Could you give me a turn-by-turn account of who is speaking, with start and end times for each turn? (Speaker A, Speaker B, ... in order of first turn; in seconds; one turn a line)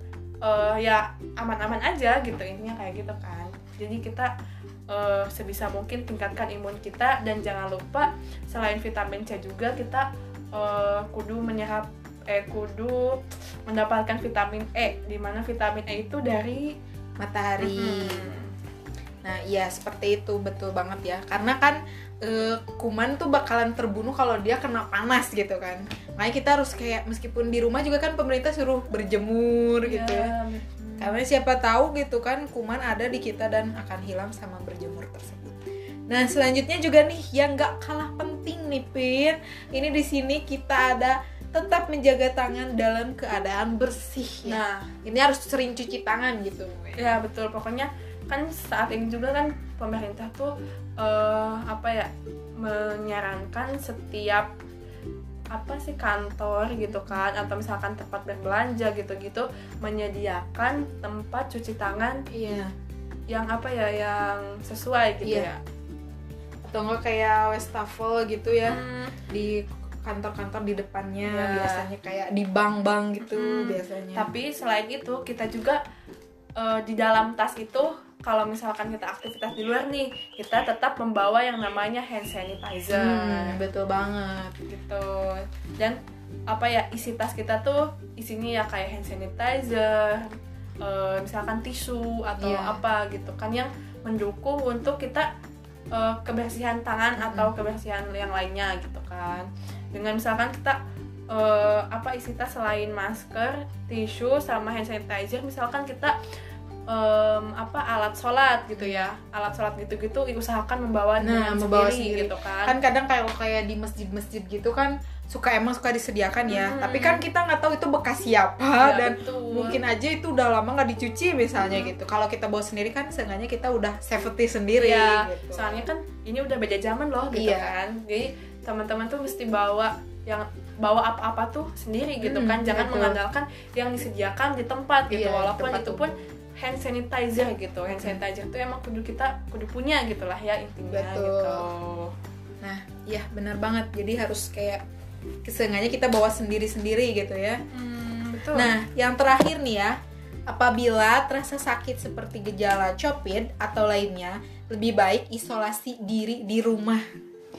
Speaker A: 0.4-4.3
Speaker A: 4.9-16.7
Speaker B: 17.2-18.3
Speaker A: 17.6-18.5
Speaker B: 19.2-30.3
Speaker A: 29.9-31.2
Speaker B: 31.0-47.2
Speaker A: 44.5-44.9
Speaker A: 47.0-54.5
Speaker A: 55.5-62.2
Speaker B: 62.3-62.7
Speaker A: 63.3-65.6
Speaker B: 65.2-65.5
Speaker B: 66.6-68.8
Speaker A: 68.7-69.2
Speaker B: 69.3-74.3
Speaker A: 71.2-71.9
Speaker A: 73.2-75.8
Speaker A: 76.6-83.6
Speaker B: 82.9-84.5
Speaker A: 84.7-86.0
Speaker A: 86.5-95.3
Speaker B: 92.4-92.8
Speaker A: 95.9-100.8
Speaker B: 97.2-97.5
Speaker A: 101.3-106.2
Speaker A: 106.9-112.8
Speaker B: 108.8-109.1
Speaker B: 111.2-125.8
Speaker A: 116.5-117.2
Speaker A: 118.8-119.8
Speaker A: 121.6-121.9
Speaker A: 124.8-142.1
Speaker B: 127.3-127.7
Speaker B: 132.2-133.2
Speaker B: 135.1-136.1
Speaker B: 140.9-141.7
Speaker B: 142.6-144.8
Speaker B: 145.4-147.6
Speaker A: 147.7-148.7
Speaker B: 148.5-149.9
Speaker B: 150.5-157.0